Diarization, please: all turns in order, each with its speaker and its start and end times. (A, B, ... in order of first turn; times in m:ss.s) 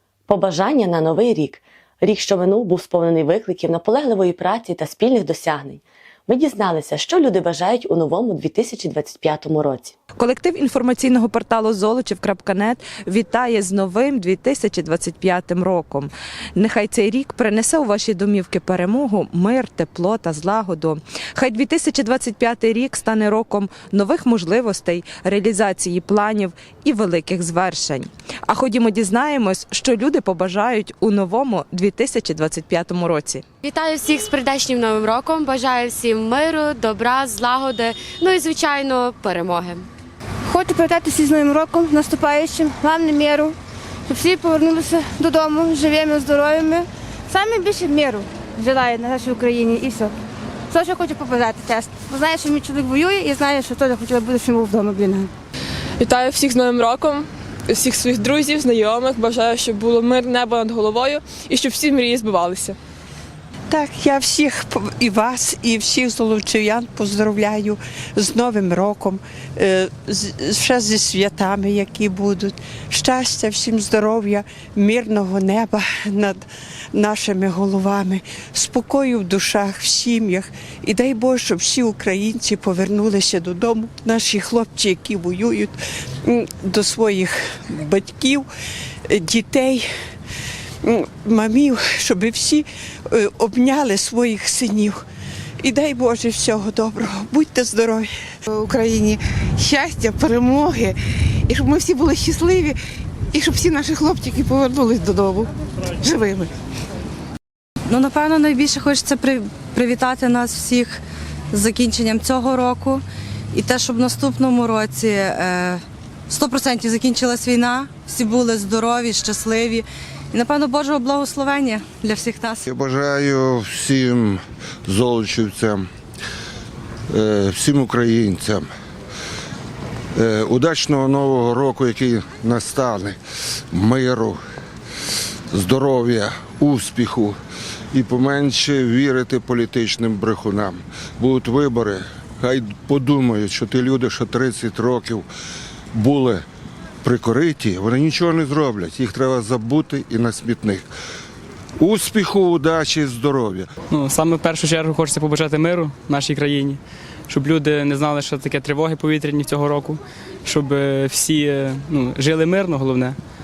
0:00.3-0:10.0 A
0:10.1-0:33.5 B
0:33.6-0:39.9 C
0:40.5-0:43.6 D
0:44.1-0:50.1 D
0:50.7-0:55.3 D
0:56.0-1:02.8 E
1:03.7-1:28.5 F
1:29.1-1:29.9 F
1:30.8-1:35.0 F
1:35.6-1:38.1 F
1:38.5-1:40.9 G
1:41.5-1:42.8 G
1:43.3-1:45.5 G
1:46.0-1:46.5 G
1:47.9-1:51.0 H
1:51.5-1:53.0 H
1:53.5-2:02.6 H
2:02.7-2:05.8 I
2:05.0-2:05.4 J
2:07.1-2:08.6 I
2:07.6-2:08.6 J
2:10.2-2:13.2 I
2:10.6-2:11.0 J
2:13.7-2:14.4 I
2:15.5-2:17.3 I
2:15.8-2:17.3 J
2:17.9-2:25.2 I
2:18.1-2:20.6 J
2:21.2-2:21.9 J
2:22.5-2:25.1 J
2:26.0-2:26.4 I
2:26.0-2:26.4 J
2:27.0-2:30.8 I
2:27.2-2:30.8 J
2:31.8-2:32.1 I
2:31.8-2:33.6 J
2:33.9-2:43.2 K